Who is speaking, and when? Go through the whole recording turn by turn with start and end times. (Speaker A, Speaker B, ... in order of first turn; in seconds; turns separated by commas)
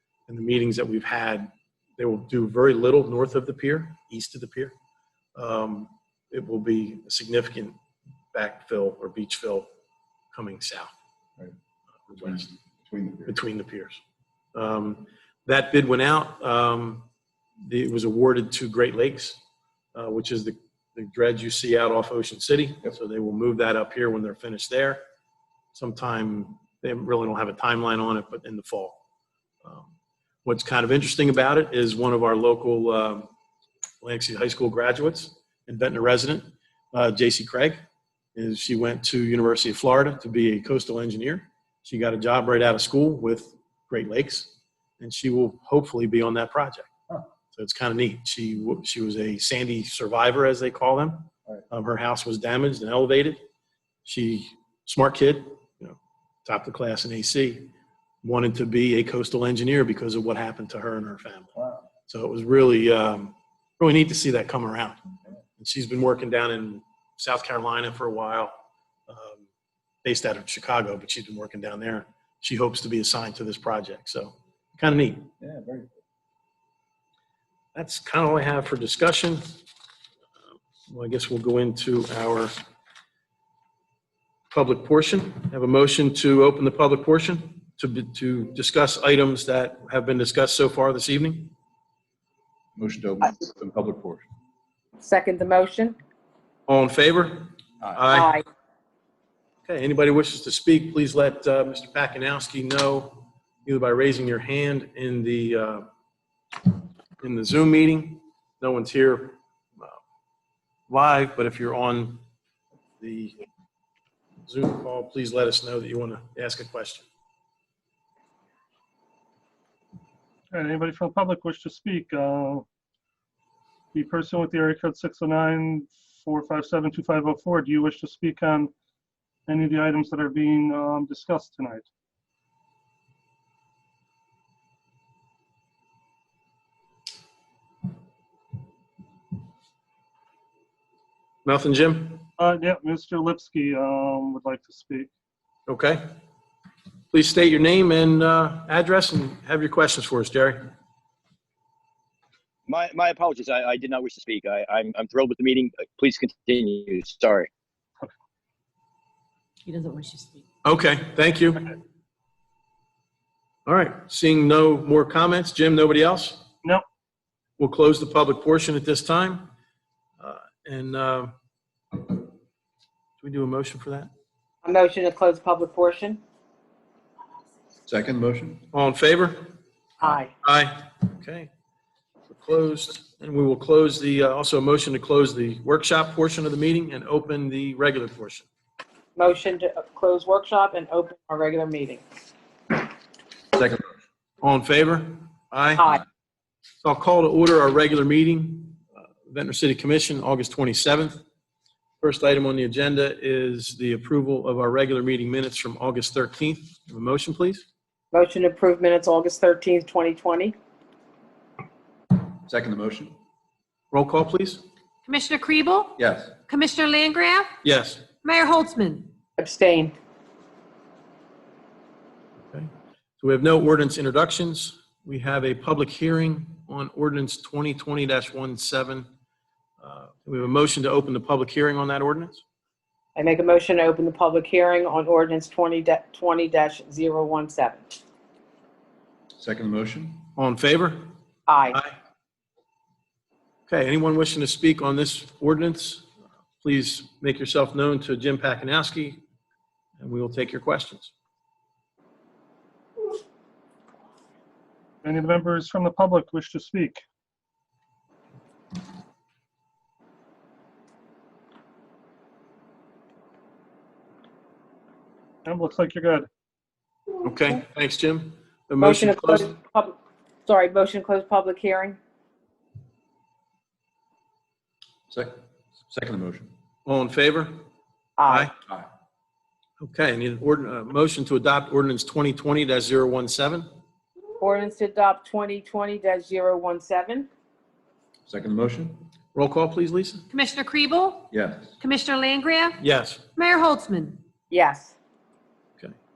Speaker A: 0.3-4.7, Speaker A: 5.3-7.8, Speaker A: 8.3-9.7, Speaker A: 10.3-10.9, Speaker A: 12.1-12.5, Speaker B: 12.8-13.3, Speaker A: 13.2-14.0, Speaker A: 14.5-17.1, Speaker A: 17.6-19.4, Speaker A: 19.9-25.0, Speaker A: 25.7-29.0, Speaker A: 29.6-29.9, Speaker A: 30.4-33.3, Speaker A: 34.0-37.8, Speaker A: 38.3-46.9, Speaker A: 47.5-53.4, Speaker A: 54.0-57.7, Speaker A: 58.2-61.5, Speaker A: 62.1-65.0, Speaker A: 65.6-68.5, Speaker A: 69.1-69.4, Speaker A: 70.0-75.3, Speaker B: 75.4-75.9, Speaker A: 77.7-79.4, Speaker A: 80.9-82.5, Speaker A: 84.5-91.5, Speaker B: 92.8-94.2, Speaker C: 95.0-96.0, Speaker A: 96.7-98.3, Speaker C: 98.1-98.4, Speaker A: 99.7-105.8, Speaker A: 107.2-110.0, Speaker A: 110.9-112.2, Speaker A: 113.0-113.3, Speaker A: 114.5-117.1, Speaker D: 120.5-122.7, Speaker D: 123.9-128.7, Speaker D: 129.5-131.9, Speaker A: 141.4-142.3, Speaker D: 142.4-145.1, Speaker A: 145.7-146.0, Speaker A: 147.1-150.7, Speaker E: 152.7-157.5, Speaker F: 159.7-160.4, Speaker A: 160.6-161.7, Speaker A: 163.7-166.4, Speaker A: 167.6-169.5, Speaker A: 170.2-171.3, Speaker A: 173.2-174.1, Speaker C: 174.6-176.2, Speaker B: 177.9-178.6, Speaker A: 178.7-179.5, Speaker C: 180.0-180.3, Speaker A: 180.0-181.5, Speaker A: 182.3-188.5, Speaker C: 189.2-192.0, Speaker B: 193.5-193.9, Speaker A: 194.4-195.9, Speaker A: 196.8-201.2, Speaker A: 202.0-207.6, Speaker C: 208.1-210.5, Speaker B: 212.4-213.1, Speaker A: 213.9-214.6, Speaker F: 215.1-215.9, Speaker B: 216.0-216.3, Speaker F: 216.5-217.5, Speaker A: 217.6-218.0, Speaker F: 218.2-219.1, Speaker C: 219.4-219.9, Speaker A: 222.5-229.1, Speaker A: 229.8-232.4, Speaker C: 233.2-237.8, Speaker B: 239.3-240.3, Speaker A: 240.3-241.1, Speaker C: 241.5-241.8, Speaker A: 243.7-246.1, Speaker A: 246.6-249.2, Speaker A: 250.0-251.1, Speaker D: 255.0-257.0, Speaker D: 265.4-266.3, Speaker A: 267.2-269.5, Speaker C: 268.8-269.9, Speaker C: 270.4-272.0, Speaker B: 275.1-276.5, Speaker A: 276.9-277.6, Speaker C: 278.2-278.5, Speaker A: 278.3-278.5, Speaker A: 279.8-283.7, Speaker C: 284.4-287.3, Speaker B: 288.2-289.0, Speaker A: 289.3-290.2, Speaker F: 290.3-291.3, Speaker B: 291.3-291.8, Speaker F: 291.8-292.8, Speaker A: 292.8-293.2, Speaker F: 293.4-294.2, Speaker C: 294.5-294.9